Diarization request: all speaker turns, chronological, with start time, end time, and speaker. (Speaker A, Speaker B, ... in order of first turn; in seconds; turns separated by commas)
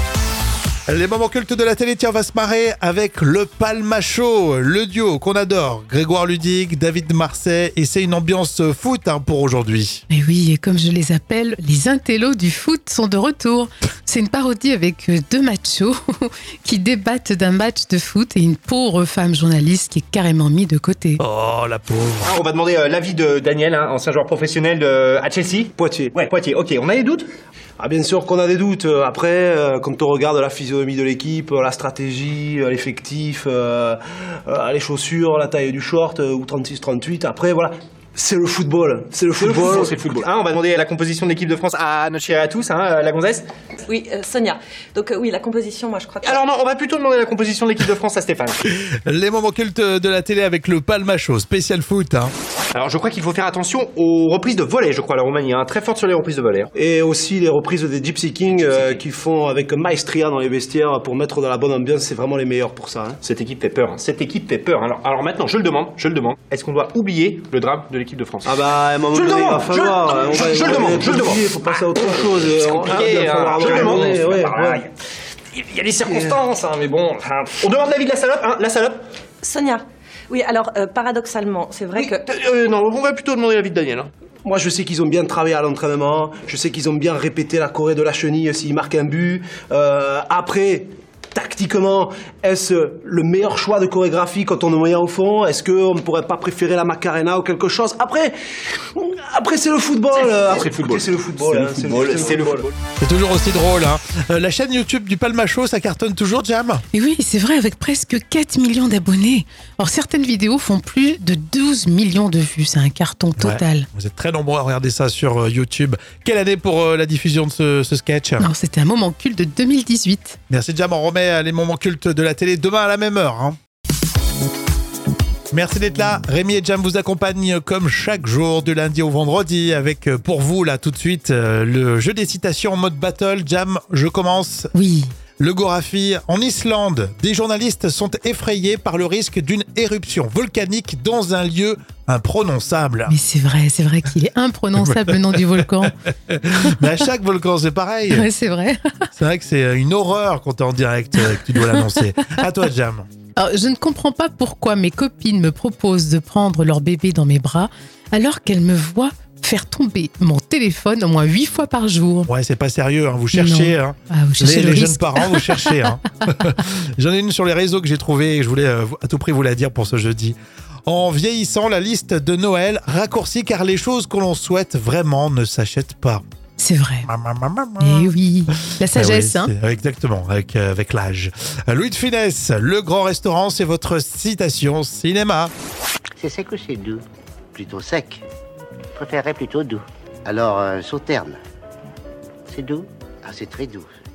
Speaker A: 0.9-10.0, Speaker B: 10.1-21.2, Speaker A: 21.2-22.3, Speaker C: 22.2-27.3, Speaker D: 25.8-26.2, Speaker D: 27.8-40.2, Speaker C: 39.4-43.5, Speaker E: 43.9-46.4, Speaker C: 46.2-48.6, Speaker A: 48.7-52.3, Speaker C: 52.7-56.7, Speaker D: 56.7-63.2, Speaker C: 58.7-58.9, Speaker C: 63.2-68.6, Speaker D: 68.4-74.8, Speaker C: 69.1-74.9, Speaker C: 75.5-79.0, Speaker D: 76.0-76.4, Speaker E: 79.4-82.2, Speaker C: 82.0-84.1, Speaker D: 84.4-98.3, Speaker D: 98.9-102.7, Speaker C: 100.2-102.7, Speaker A: 103.0-106.8, Speaker B: 106.9-113.9, Speaker A: 113.3-118.5, Speaker B: 118.4-120.4, Speaker A: 120.5-123.6, Speaker A: 125.5-134.7, Speaker B: 134.7-135.2, Speaker A: 135.4-143.1, Speaker B: 143.1-145.9, Speaker A: 144.8-148.3, Speaker B: 148.1-149.1, Speaker A: 149.2-153.1, Speaker B: 151.6-151.9, Speaker B: 153.4-162.3, Speaker A: 162.3-176.2, Speaker B: 163.3-165.9, Speaker B: 176.6-177.1, Speaker A: 177.1-178.1, Speaker B: 177.8-179.5, Speaker A: 178.7-185.5, Speaker F: 186.2-188.2, Speaker F: 188.9-191.4, Speaker F: 192.5-193.9